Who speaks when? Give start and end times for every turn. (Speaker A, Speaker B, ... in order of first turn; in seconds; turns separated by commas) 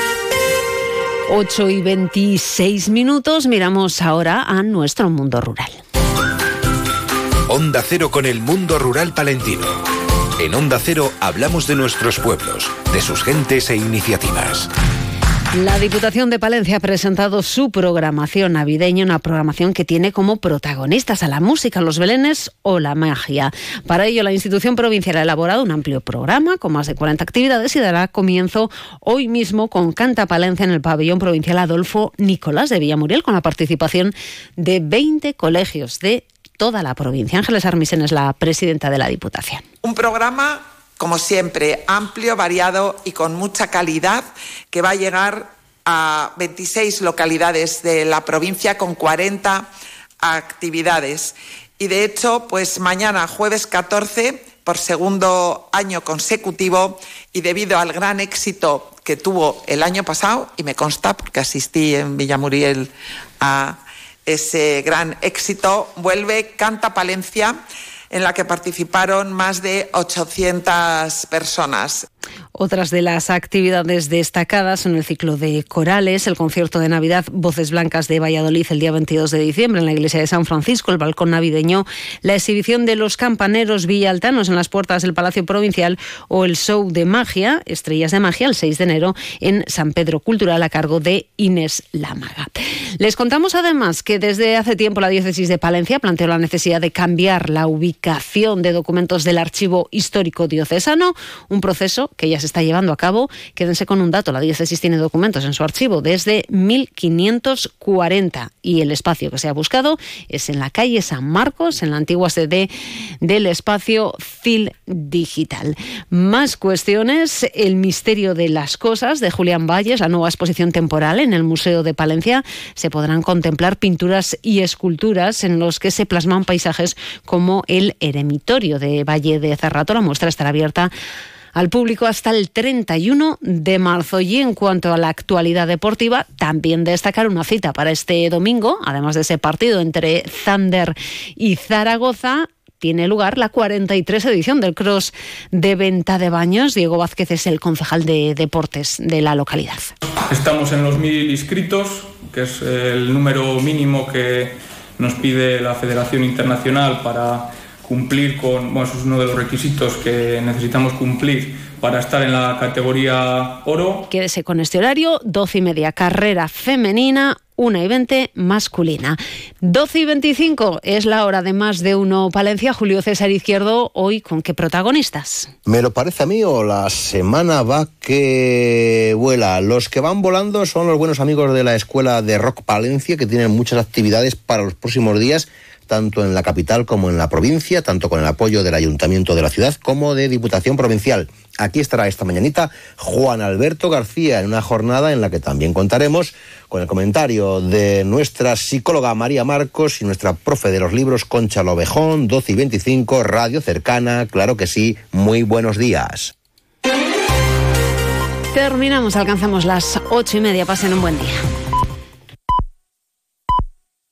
Speaker A: 1.3-5.8, Speaker B: 7.5-9.7, Speaker B: 10.4-14.7, Speaker A: 15.5-39.6, Speaker C: 39.8-49.7, Speaker C: 50.2-67.6, Speaker C: 68.1-72.0, Speaker A: 72.5-112.7, Speaker A: 113.2-130.9, Speaker A: 131.5-149.9, Speaker D: 150.3-164.0, Speaker A: 164.1-175.5, Speaker E: 175.7-206.3, Speaker A: 208.5-211.4